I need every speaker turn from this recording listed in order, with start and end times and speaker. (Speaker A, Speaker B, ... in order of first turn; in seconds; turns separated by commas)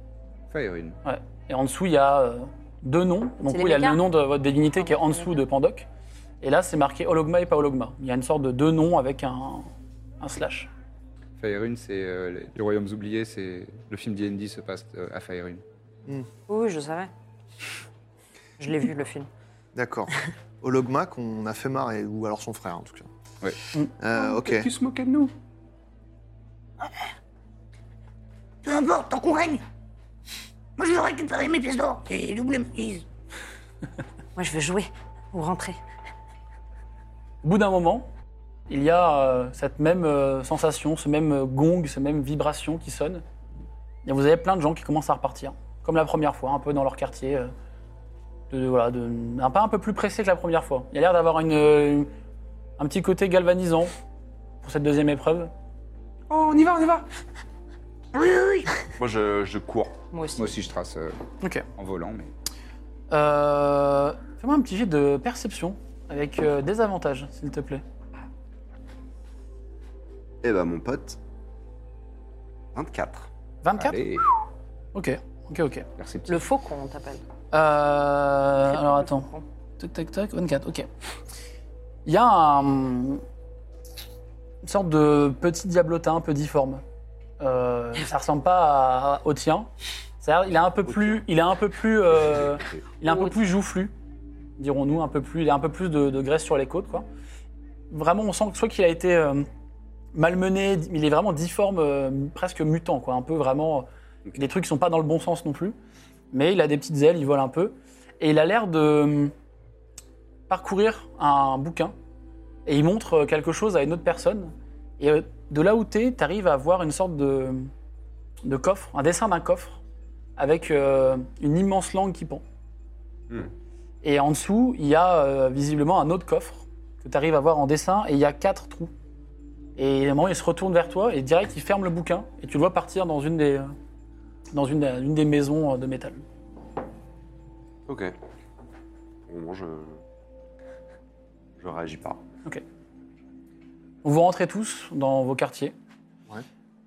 Speaker A: 0.5-1.0, Speaker B: 1.1-5.9, Speaker C: 3.5-4.0, Speaker C: 4.8-5.4, Speaker B: 6.4-10.7, Speaker A: 11.4-15.6, Speaker C: 16.5-17.1, Speaker C: 18.6-19.3, Speaker D: 19.8-20.1, Speaker D: 20.6-23.1, Speaker D: 24.0-24.7, Speaker E: 24.1-25.3, Speaker F: 28.6-29.6, Speaker F: 30.8-33.0, Speaker C: 34.4-35.8, Speaker B: 37.4-38.1, Speaker B: 38.7-43.2, Speaker B: 44.0-47.5, Speaker B: 48.5-52.1, Speaker B: 52.8-53.9, Speaker B: 54.6-55.5, Speaker E: 56.3-57.1, Speaker F: 58.1-58.7, Speaker G: 59.0-60.0, Speaker C: 60.1-60.6, Speaker A: 60.4-61.2, Speaker B: 61.4-61.7, Speaker A: 61.8-62.3, Speaker B: 63.1-67.8, Speaker G: 70.4-71.2, Speaker G: 72.7-73.3, Speaker B: 73.6-74.0, Speaker A: 73.8-74.3, Speaker B: 74.9-75.9, Speaker A: 76.0-76.4, Speaker C: 76.3-77.2, Speaker B: 77.5-80.9, Speaker C: 78.7-79.5, Speaker B: 82.1-83.2, Speaker B: 84.6-86.8, Speaker B: 87.4-89.7, Speaker B: 90.2-93.9, Speaker B: 94.6-97.1, Speaker B: 97.9-99.5, Speaker B: 100.1-105.8, Speaker B: 106.3-109.3, Speaker B: 110.5-111.9, Speaker B: 112.7-117.7, Speaker B: 118.4-119.8, Speaker B: 120.4-122.4, Speaker B: 124.0-128.9, Speaker B: 129.8-133.8, Speaker B: 134.5-136.2, Speaker G: 137.9-138.1, Speaker G: 139.3-140.0, Speaker G: 141.6-142.2, Speaker B: 144.0-145.8